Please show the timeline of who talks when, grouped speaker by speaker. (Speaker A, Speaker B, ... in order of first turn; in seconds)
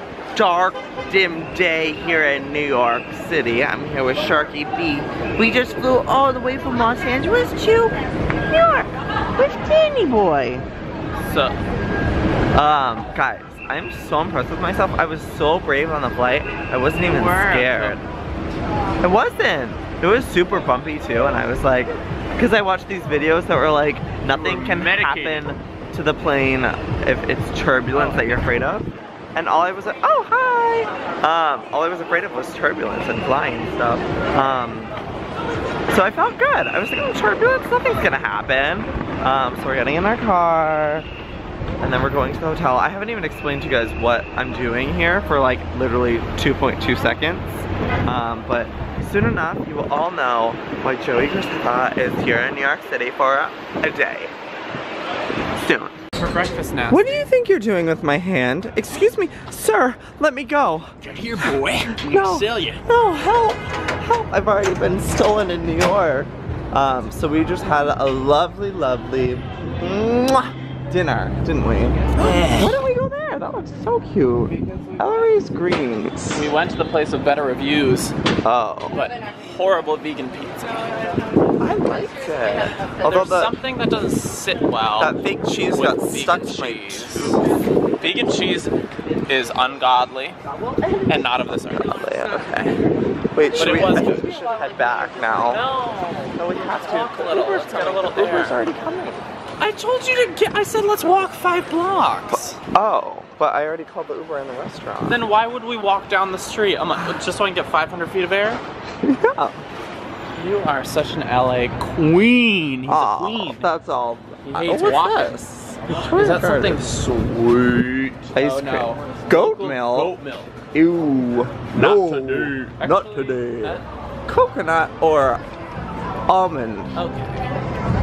Speaker A: 0.3-10.7, 12.5-18.0, 19.0-34.9, 35.9-41.1, 41.8-54.3, 55.6-56.0, 56.9-76.5, 78.4-79.0, 81.6-83.6, 85.0-87.4, 90.8-92.8, 93.3-95.7, 96.3-99.3, 102.6-105.2, 109.0-109.6, 112.8-116.9, 118.3-120.2, 120.7-125.4, 126.3-126.9
Speaker B: 11.2-11.6, 17.0-18.0, 24.3-25.5, 27.9-28.5, 56.1-57.2, 61.0-62.8, 72.2-72.8, 76.3-78.1, 78.9-81.0, 83.0-87.4, 88.0-88.7, 89.3-90.4, 90.9-92.7, 93.5-94.5, 95.3-98.6, 99.6-102.6, 105.0-108.6, 110.3-113.7, 114.5-120.5, 121.7-123.8, 126.9-127.4